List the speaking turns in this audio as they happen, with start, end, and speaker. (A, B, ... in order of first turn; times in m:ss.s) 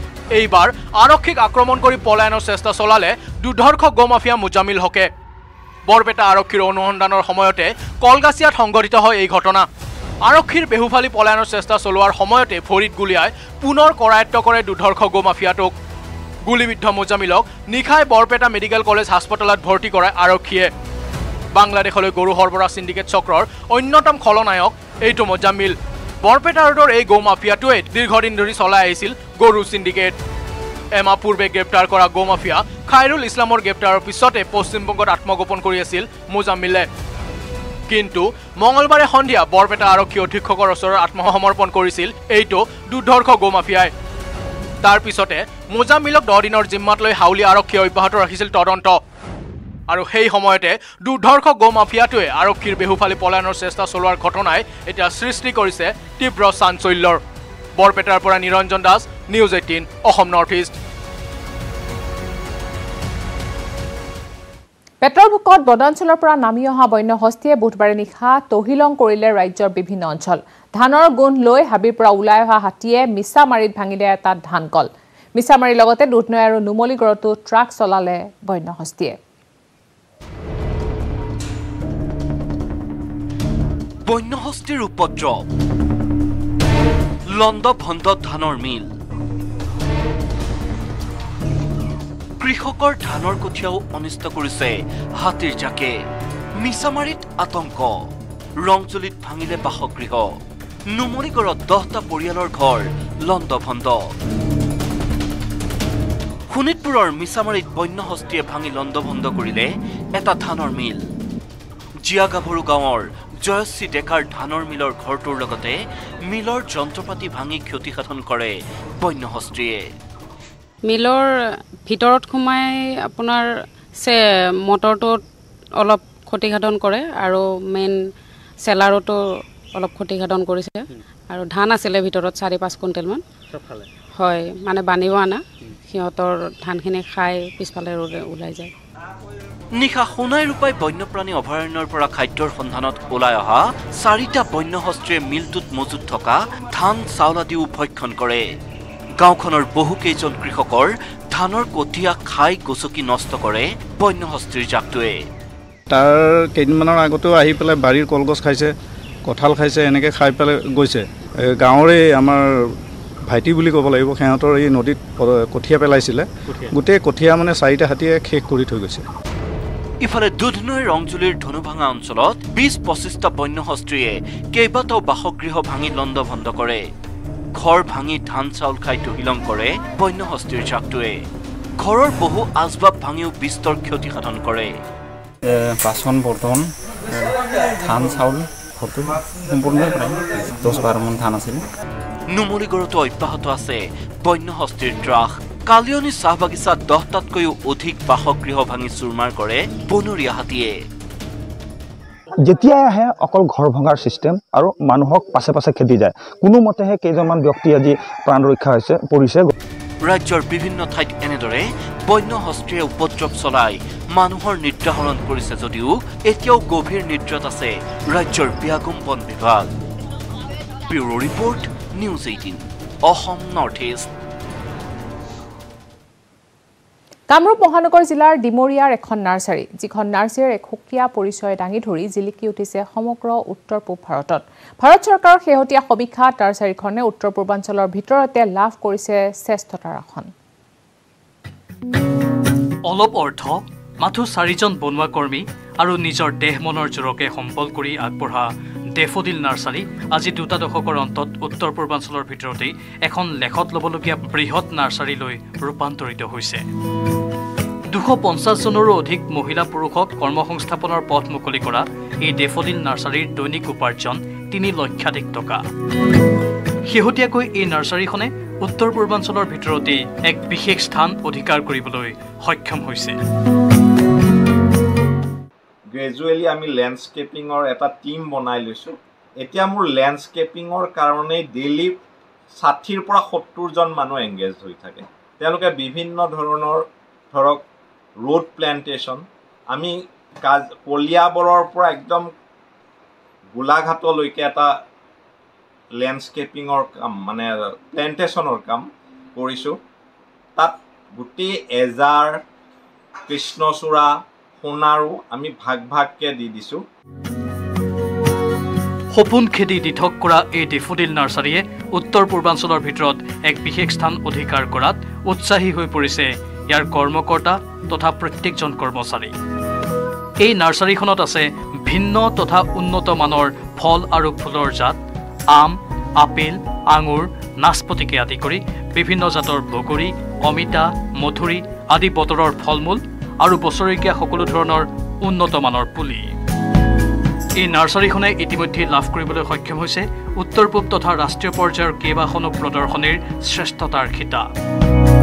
0:00.4-0:05.1 A
0:05.9-0:09.7 A
0:10.3-0:15.7 A
0:16.5-0:20.7 A
0:21.6-0:30.2 A
0:31.0-0:36.9 A
0:37.9-0:43.9 A
0:44.8-0:49.0 A
0:49.9-0:57.2 A
0:57.8-1:00.8 A
1:05.0-1:19.2 B
1:24.1-1:25.4 C
1:27.3-1:28.9 C
1:32.4-1:35.9 C
1:36.6-1:38.0 C
1:38.6-1:40.4 C
1:40.9-1:44.1 C
1:46.5-1:51.0 C
1:52.0-1:55.8 C
1:56.3-1:59.8 C
2:00.8-2:01.3 D
2:01.8-2:05.2 D
2:05.8-2:08.0 D
2:08.6-2:13.2 D
2:14.2-2:18.7 D
2:19.8-2:28.4 C
2:29.2-2:35.2 C
2:35.9-2:38.7 E
2:39.3-2:41.0 E
2:41.6-2:42.5 E
2:43.3-2:49.0 E
2:50.0-2:56.8 C
2:57.6-3:01.2 C
3:01.8-3:04.8 C
3:05.4-3:11.6 F
3:12.3-3:20.8 C
3:22.4-3:29.5 G
3:30.0-3:39.7 C
3:40.9-3:44.1 C
3:47.3-4:00.3 B
4:02.9-4:16.6 H
4:17.9-4:25.6 H
4:26.9-4:33.2 H
4:35.9-4:42.0 I
4:42.6-4:46.8 I
4:47.3-4:47.6 I
4:48.2-4:52.3 I
4:53.6-4:54.7 I
4:55.9-4:59.8 I
5:00.6-5:02.4 I
5:03.3-5:04.1 I
5:04.6-5:06.8 I
5:09.1-5:19.3 H
5:20.4-5:25.0 H
5:25.5-5:36.3 H
5:37.6-5:44.5 H